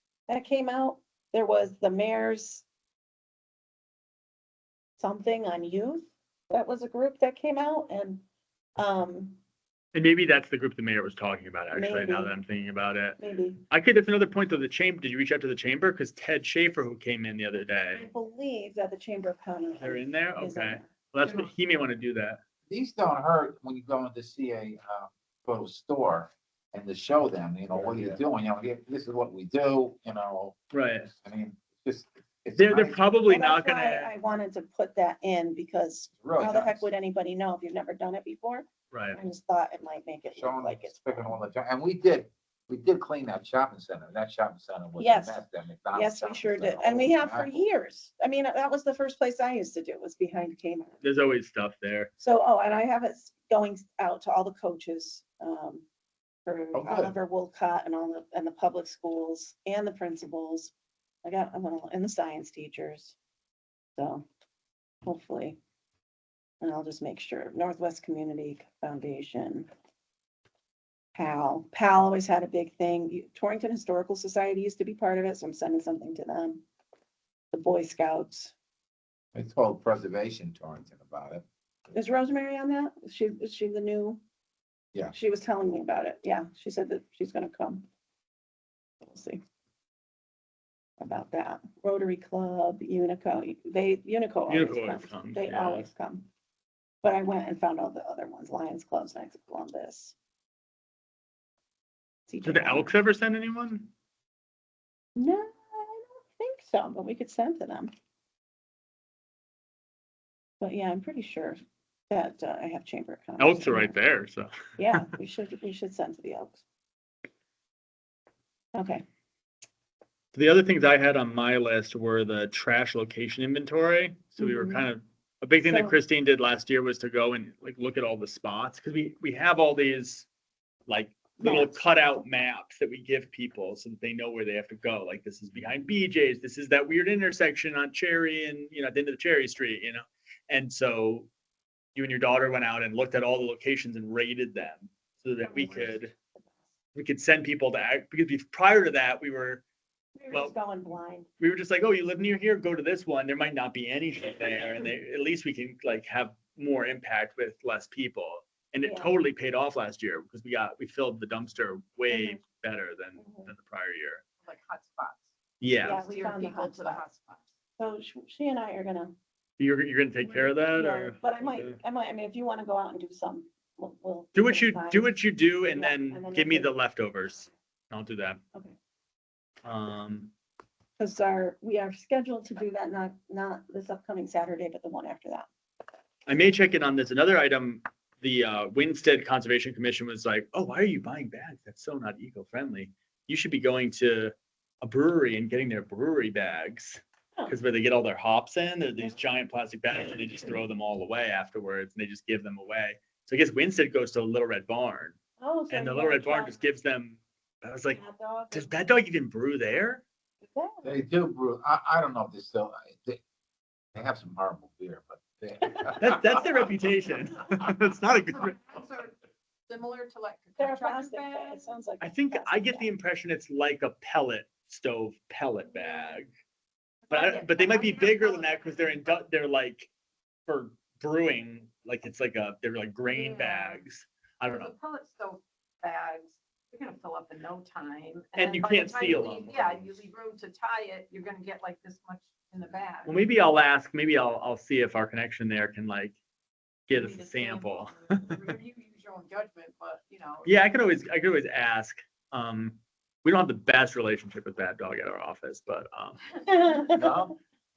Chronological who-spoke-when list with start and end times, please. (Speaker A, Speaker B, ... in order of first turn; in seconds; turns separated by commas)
Speaker A: 0.3-2.6, Speaker A: 5.0-8.2, Speaker A: 8.8-9.4, Speaker B: 9.9-13.2, Speaker A: 11.7-12.4, Speaker A: 13.2-13.6, Speaker B: 13.7-18.1, Speaker A: 17.9-20.9, Speaker B: 19.8-22.4, Speaker C: 21.2-21.5, Speaker C: 22.7-30.6, Speaker B: 30.7-31.1, Speaker C: 31.1-33.0, Speaker B: 32.5-34.1, Speaker A: 33.3-41.4, Speaker C: 36.2-36.9, Speaker B: 38.9-39.2, Speaker C: 40.3-47.6, Speaker A: 45.0-45.4, Speaker A: 45.9-51.0, Speaker B: 51.0-52.1, Speaker A: 52.2-55.9, Speaker A: 56.5-60.7, Speaker C: 56.7-57.1, Speaker A: 61.2-63.1, Speaker A: 64.0-64.2, Speaker A: 65.0-65.6, Speaker A: 66.6-69.7, Speaker A: 71.1-76.6, Speaker A: 77.5-78.5, Speaker C: 79.3-81.4, Speaker A: 81.9-84.2, Speaker A: 85.1-87.8, Speaker A: 89.0-89.4, Speaker A: 91.0-96.3, Speaker B: 94.5-95.9, Speaker A: 97.0-100.1, Speaker A: 102.3-102.9, Speaker B: 102.4-103.9, Speaker A: 105.2-107.9, Speaker A: 110.6-114.0, Speaker B: 113.4-115.1, Speaker A: 114.8-116.6, Speaker A: 118.7-119.0, Speaker B: 120.3-130.3, Speaker A: 124.4-124.9, Speaker A: 125.6-126.0, Speaker B: 130.9-141.3, Speaker A: 131.4-131.8, Speaker B: 141.9-146.1, Speaker A: 145.4-146.5, Speaker B: 146.9-149.6, Speaker A: 150.2-151.3, Speaker B: 151.4-164.2, Speaker A: 158.8-159.1, Speaker A: 162.1-162.4, Speaker A: 163.2-163.5, Speaker D: 164.4-165.3, Speaker B: 165.6-166.0, Speaker A: 165.8-167.0, Speaker D: 165.9-167.5, Speaker A: 167.8-169.1, Speaker B: 169.6-171.8, Speaker A: 170.2-175.1, Speaker B: 174.3-178.4, Speaker A: 175.7-176.7, Speaker B: 179.6-180.3, Speaker A: 181.0-185.5, Speaker B: 186.2-205.2, Speaker A: 205.4-206.5, Speaker B: 205.7-208.0, Speaker A: 207.9-208.7, Speaker B: 208.5-210.0, Speaker A: 210.5-211.0, Speaker C: 210.8-213.2, Speaker C: 213.9-216.3, Speaker B: 216.0-218.8, Speaker D: 218.3-219.1, Speaker D: 219.7-221.8, Speaker A: 220.6-222.9, Speaker B: 222.0-226.3, Speaker D: 227.1-229.2, Speaker B: 227.1-229.9, Speaker B: 230.5-234.7, Speaker D: 233.1-233.8, Speaker D: 234.5-243.2, Speaker B: 238.3-239.8, Speaker B: 243.0-246.2, Speaker B: 246.9-248.3, Speaker D: 246.9-250.5, Speaker B: 250.4-256.3, Speaker A: 256.5-257.1, Speaker D: 256.6-257.0, Speaker B: 257.0-257.2